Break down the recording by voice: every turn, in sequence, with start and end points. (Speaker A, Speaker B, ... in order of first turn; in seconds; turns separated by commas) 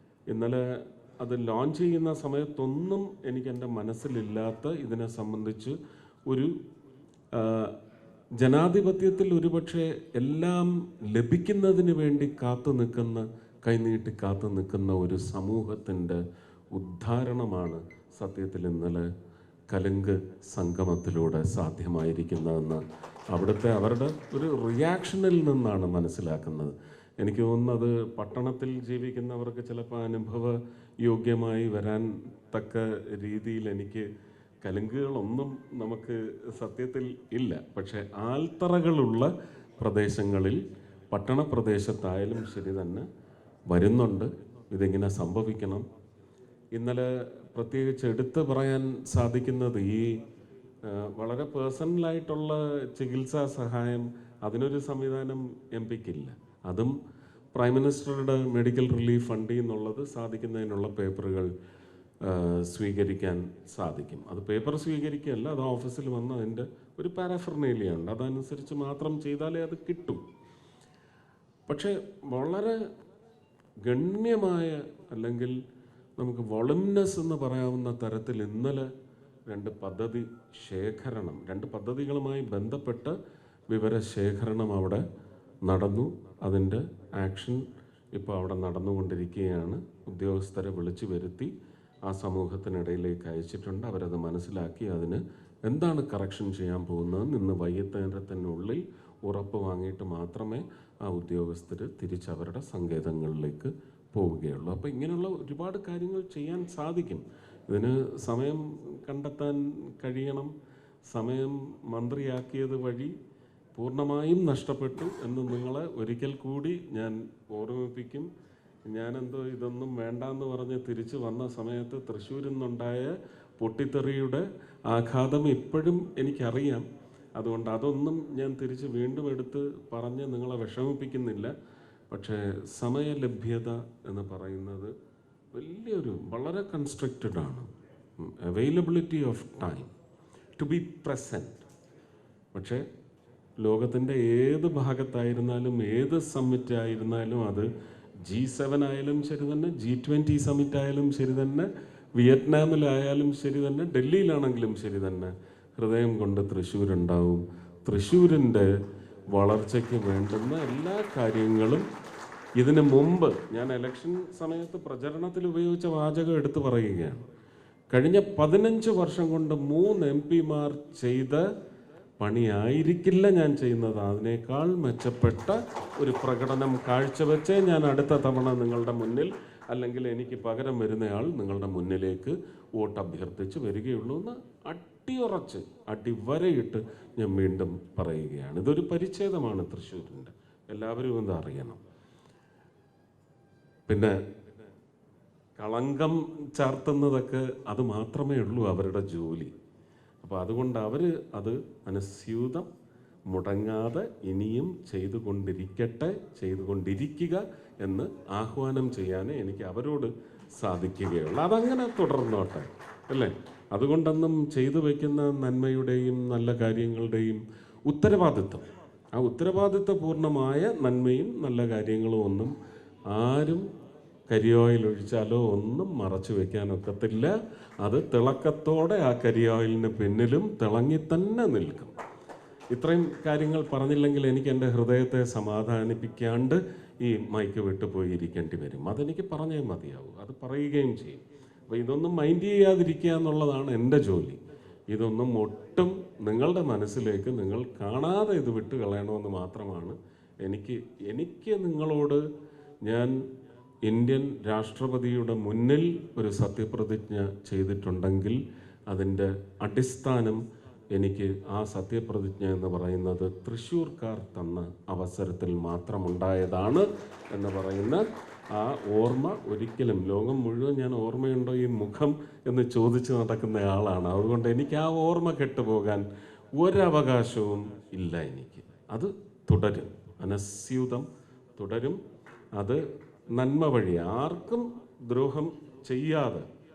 Speaker A: 0.3-5.8, Speaker A: 6.3-6.6, Speaker A: 7.3-7.8, Speaker A: 8.4-19.1, Speaker A: 19.7-34.1, Speaker A: 34.6-43.1, Speaker A: 43.7-45.9, Speaker A: 46.7-50.2, Speaker A: 50.8-57.0, Speaker A: 57.5-61.5, Speaker A: 62.2-70.2, Speaker A: 71.7-72.8, Speaker A: 73.8-75.6, Speaker A: 76.2-78.9, Speaker A: 79.5-83.2, Speaker A: 83.7-85.0, Speaker A: 85.7-91.5, Speaker A: 92.0-110.5, Speaker A: 111.1-113.1, Speaker A: 113.8-118.3, Speaker A: 118.9-126.9, Speaker A: 127.4-131.5, Speaker A: 132.1-134.9, Speaker A: 135.5-139.9, Speaker A: 140.6-141.6, Speaker A: 142.5-142.9, Speaker A: 143.6-147.7, Speaker A: 148.2-158.7, Speaker A: 159.3-161.9, Speaker A: 162.6-167.2, Speaker A: 167.9-171.5, Speaker A: 172.2-191.8, Speaker A: 193.9-194.2, Speaker A: 195.6-199.5, Speaker A: 200.2-202.7, Speaker A: 203.3-222.5, Speaker A: 223.1-223.7, Speaker A: 224.3-231.9, Speaker A: 232.7-252.2, Speaker A: 252.8-253.3, Speaker A: 253.8-282.0, Speaker A: 282.6-286.5